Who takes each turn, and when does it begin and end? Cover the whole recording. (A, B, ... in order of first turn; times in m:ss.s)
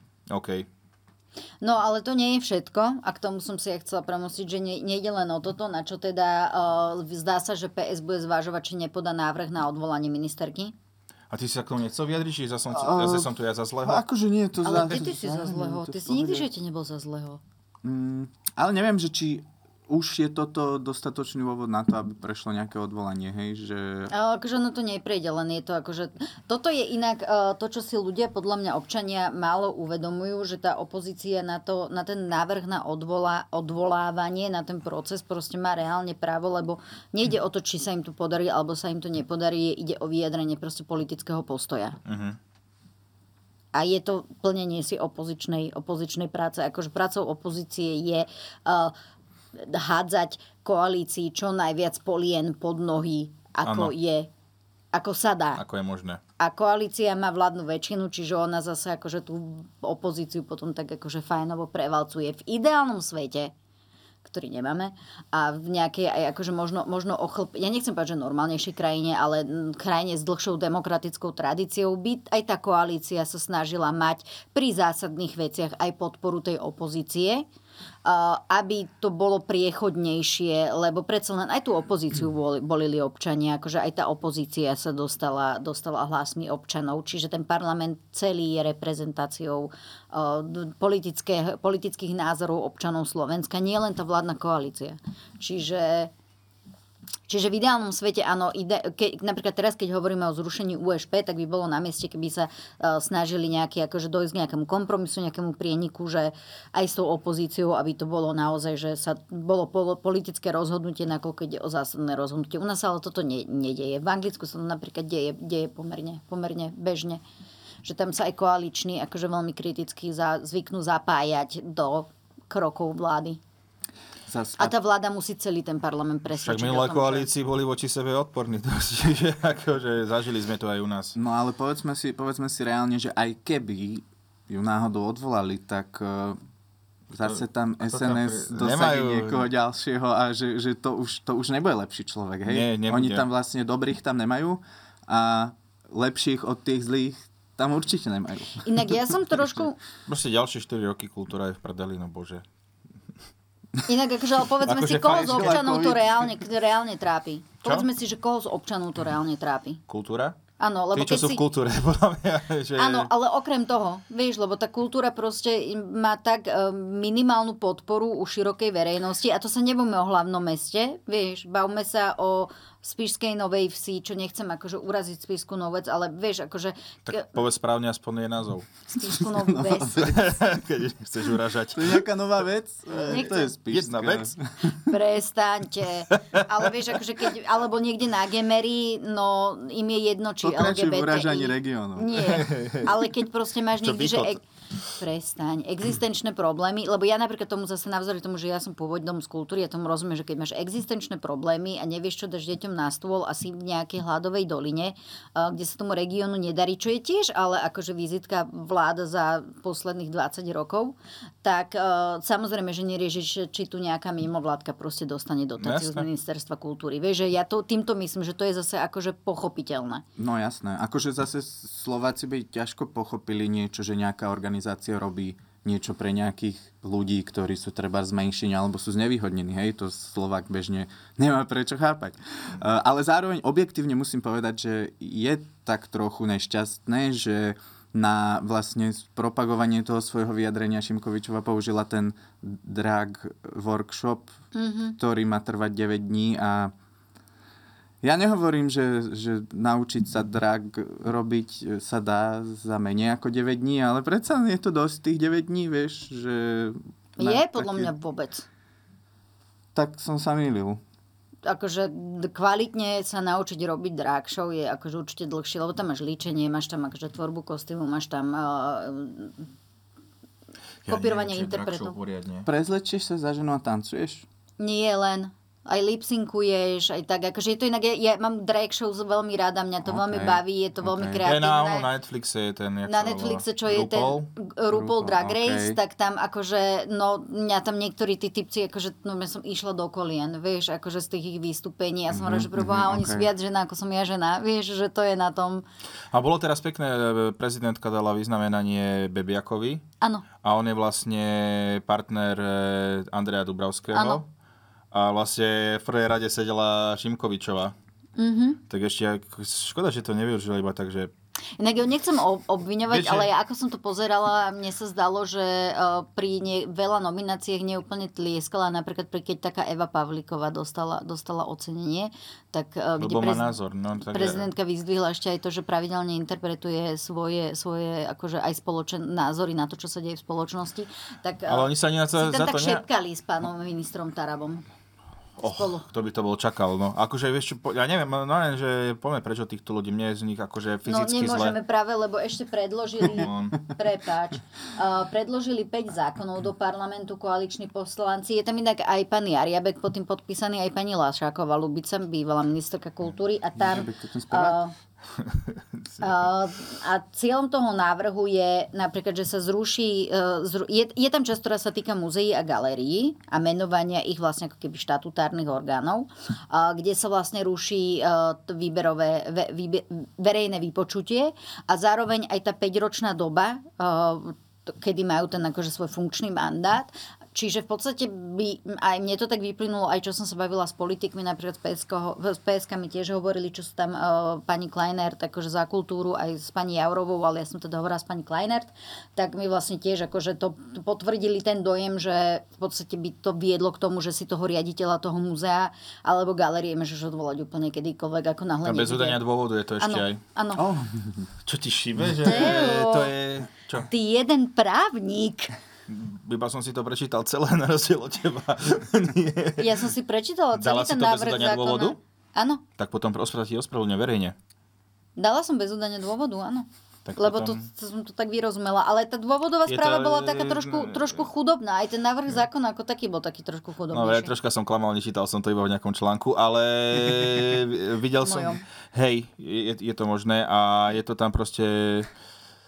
0:00.3-0:00.7 A
0:01.6-0:10.7 B
0:11.3-0:14.0 A
0:12.7-0:13.3 C
0:13.8-0:16.5 C
0:14.6-0:17.4 B
0:17.8-0:24.1 C
0:24.1-0:42.0 B
0:42.1-0:42.4 A
0:43.7-0:48.9 B
0:49.6-0:54.3 B
0:53.6-0:53.9 A
0:54.9-0:55.6 B
0:55.6-0:56.2 A
0:56.4-1:03.5 B
1:04.2-1:17.5 B
1:18.0-1:36.1 B
1:37.3-1:57.2 B
1:57.8-2:03.4 B
2:04.3-2:04.8 C
2:04.6-2:07.3 B
2:06.4-2:11.2 A
2:11.2-2:16.4 C
2:17.1-2:28.6 C
2:17.1-2:19.5 A
2:22.5-2:23.2 A
2:28.6-2:29.8 B
2:30.1-2:32.4 A
2:33.8-2:39.8 B
2:34.6-2:35.9 A
2:35.0-2:36.1 C
2:39.9-2:40.4 A
2:40.6-2:41.4 B
2:40.9-2:43.1 A
2:42.8-2:57.3 B
2:57.1-2:58.7 A
2:58.9-3:00.1 B
2:59.3-3:00.3 C
3:00.0-3:02.1 A
3:01.8-3:04.5 C
3:03.1-3:03.5 B
3:03.7-3:04.3 A
3:04.9-3:14.4 B
3:10.4-3:12.4 C
3:12.3-3:12.9 A
3:13.8-3:14.4 A
3:15.0-3:40.0 B
3:35.6-3:36.1 A
3:40.2-4:04.3 C
4:04.5-4:05.0 B
4:05.0-4:06.7 C
4:08.0-4:17.9 C
4:17.2-4:18.5 B
4:19.7-4:20.8 C
4:21.4-4:29.5 B
4:30.8-4:32.5 A
4:30.9-4:32.0 B
4:32.4-4:34.3 C
4:34.6-4:41.9 B
4:39.8-4:41.2 C
4:41.2-4:44.3 A
4:42.9-4:55.6 B
4:44.7-4:45.8 C
4:52.1-4:53.3 C
4:56.1-4:59.8 A
5:00.4-5:04.3 A
5:03.9-5:04.2 B
5:04.9-5:07.8 A
5:08.2-5:08.6 B
5:08.7-5:11.1 A
5:11.6-5:23.5 B
5:12.9-5:13.3 A
5:23.0-5:24.5 A
5:24.1-5:34.6 B
5:31.5-5:32.8 A
5:35.4-5:41.6 A
5:35.5-5:35.9 B
5:40.9-5:54.7 B
5:43.0-5:43.6 A
5:53.6-5:54.6 C
5:55.8-5:56.3 A
5:56.0-6:39.2 B
6:38.6-6:40.2 A
6:39.8-6:40.6 B
6:40.6-6:41.3 C
6:41.5-6:43.9 A
6:42.2-6:43.1 B
6:43.9-6:45.5 B
6:45.9-6:49.7 A
6:49.6-6:52.6 B
6:50.6-6:52.0 A
6:52.8-6:54.4 A
6:55.2-7:04.3 B
6:57.1-6:57.6 A
6:59.7-7:01.2 A
7:03.9-7:12.1 A
7:08.2-7:08.6 B